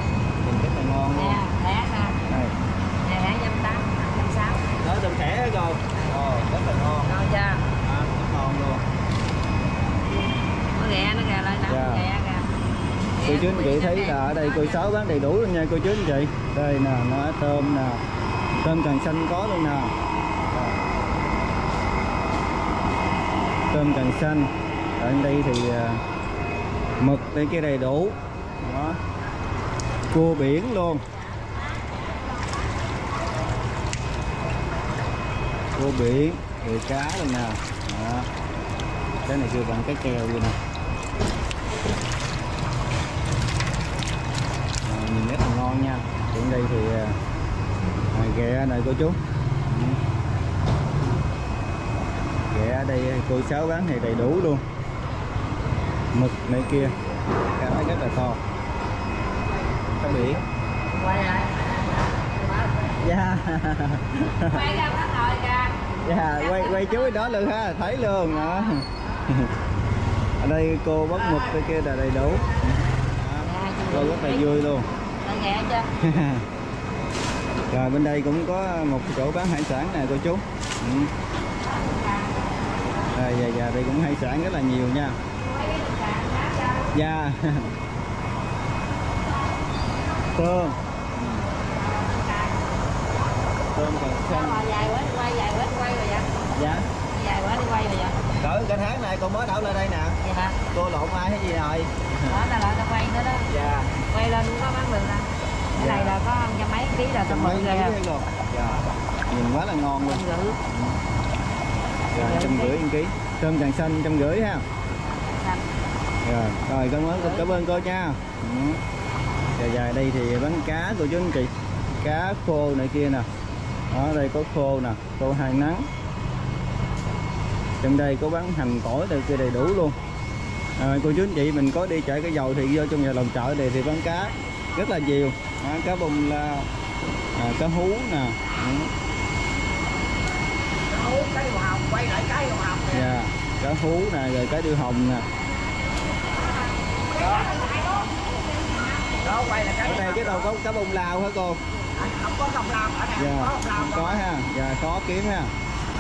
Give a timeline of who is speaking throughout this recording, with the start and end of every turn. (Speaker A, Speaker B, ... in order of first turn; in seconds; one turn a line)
Speaker A: 0.4-1.4
Speaker B: 1.2-2.1
Speaker A: 2.2-2.5
Speaker B: 3.0-4.6
Speaker A: 4.8-7.2
Speaker B: 7.1-7.6
Speaker A: 7.8-8.8
Speaker B: 10.8-12.4
Speaker A: 11.6-12.1
Speaker A: 13.2-18.0
Speaker B: 13.2-14.2
Speaker A: 18.6-19.9
Speaker A: 20.5-20.8
Speaker A: 23.7-26.0
Speaker A: 27.0-29.0
Speaker A: 30.1-31.0
Speaker A: 35.8-38.3
Speaker A: 39.2-40.6
Speaker A: 44.9-47.1
Speaker A: 48.1-50.0
Speaker A: 52.4-54.6
Speaker A: 56.1-57.0
Speaker A: 57.5-58.4
Speaker A: 59.9-60.4
Speaker B: 61.1-61.5
Speaker A: 63.0-64.8
Speaker B: 64.6-65.7
Speaker A: 66.0-69.5
Speaker A: 70.4-74.9
Speaker B: 73.5-74.5
Speaker B: 75.2-75.9
Speaker A: 76.0-76.5
Speaker A: 77.7-81.1
Speaker A: 83.1-85.2
Speaker A: 86.9-87.7
Speaker A: 90.3-91.5
Speaker A: 93.7-94.7
Speaker B: 94.5-96.3
Speaker A: 96.5-96.9
Speaker B: 97.1-98.1
Speaker A: 98.4-102.5
Speaker B: 100.2-100.5
Speaker B: 102.3-103.4
Speaker A: 103.5-103.9
Speaker B: 104.0-108.0
Speaker A: 105.7-106.2
Speaker A: 107.2-111.0
Speaker B: 110.2-110.5
Speaker A: 112.1-114.6
Speaker B: 112.2-112.7
Speaker A: 116.2-118.8
Speaker A: 119.6-123.3
Speaker A: 123.9-125.9
Speaker A: 127.8-130.0
Speaker A: 130.8-136.7
Speaker A: 137.3-138.9
Speaker C: 140.9-143.0
Speaker A: 142.9-145.2
Speaker C: 147.1-147.7
Speaker C: 149.2-150.4
Speaker A: 149.8-151.6
Speaker C: 151.9-154.2
Speaker A: 153.2-155.5